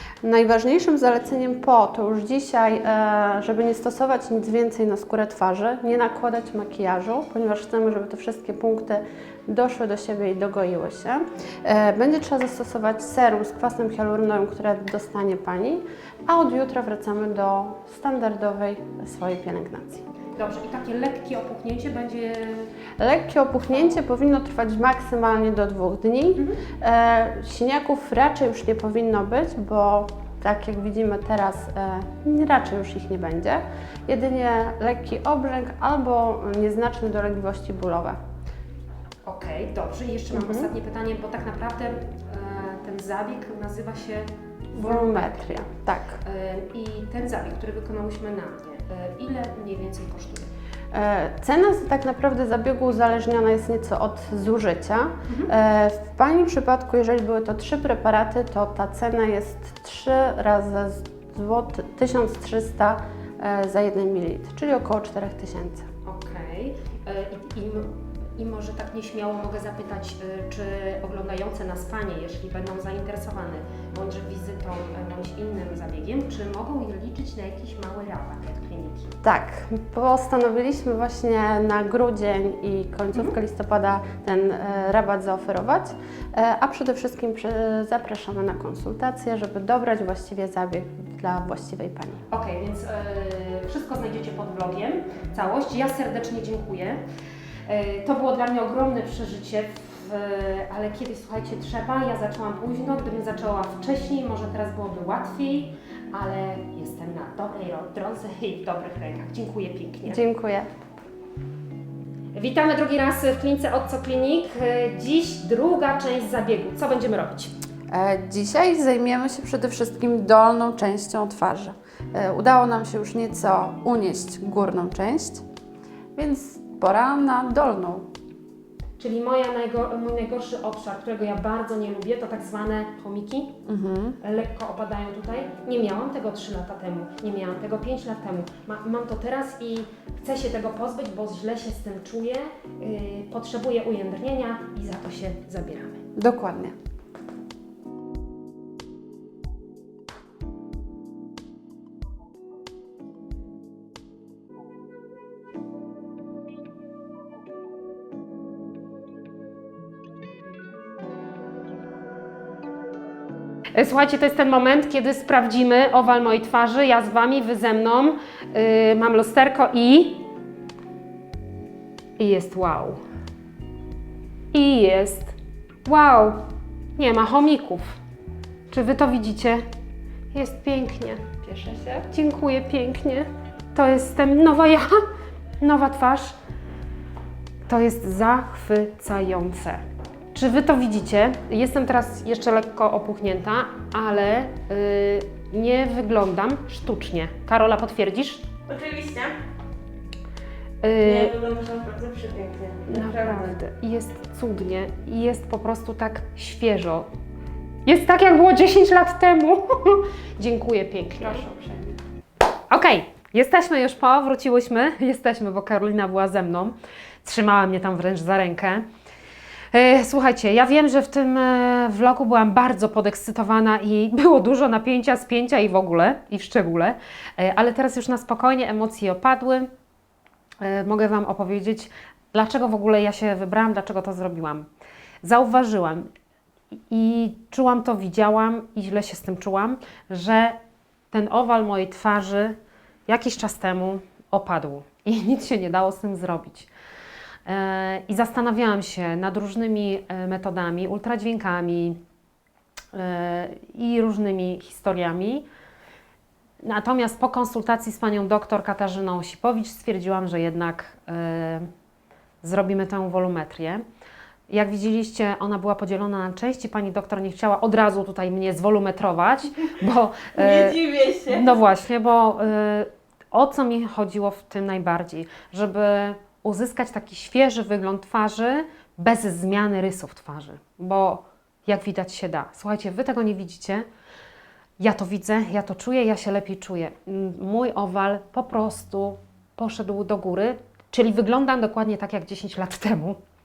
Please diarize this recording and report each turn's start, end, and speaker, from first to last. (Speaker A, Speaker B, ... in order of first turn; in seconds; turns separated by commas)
Speaker A: 0.2-20.1, Speaker B: 20.3-22.7, Speaker A: 23.0-38.2, Speaker B: 39.2-45.7, Speaker A: 40.3-40.7, Speaker A: 44.8-46.2, Speaker B: 46.2-50.5, Speaker A: 50.9-65.9, Speaker B: 66.0-79.2, Speaker A: 79.2-92.2, Speaker B: 92.3-97.0, Speaker B: 97.7-110.2, Speaker A: 110.1-110.7, Speaker B: 112.3-117.5, Speaker A: 117.9-125.4, Speaker A: 126.2-128.1, Speaker B: 129.0-133.6, Speaker A: 133.7-134.2, Speaker B: 134.2-146.0, Speaker A: 146.2-146.7, Speaker B: 163.8-170.2, Speaker B: 172.2-173.0, Speaker B: 174.5-176.4, Speaker B: 177.0-178.0, Speaker B: 178.7-179.7, Speaker B: 180.3-181.2, Speaker A: 181.4-182.1, Speaker B: 182.1-185.0, Speaker B: 185.6-186.3, Speaker B: 187.7-189.8, Speaker B: 190.3-198.5, Speaker C: 198.7-199.4, Speaker B: 200.8-201.3, Speaker C: 201.0-203.5, Speaker B: 202.9-207.1, Speaker B: 207.8-211.4, Speaker C: 211.2-211.6, Speaker A: 211.5-211.9, Speaker B: 212.7-218.8, Speaker B: 219.7-229.7, Speaker B: 230.6-234.7, Speaker B: 235.2-236.1, Speaker B: 236.9-240.6, Speaker B: 241.1-242.6, Speaker B: 243.1-246.7, Speaker B: 247.5-252.0, Speaker B: 252.9-255.4, Speaker B: 256.6-261.7, Speaker B: 262.4-263.8, Speaker B: 264.5-283.9, Speaker C: 270.4-271.6, Speaker B: 284.8-293.2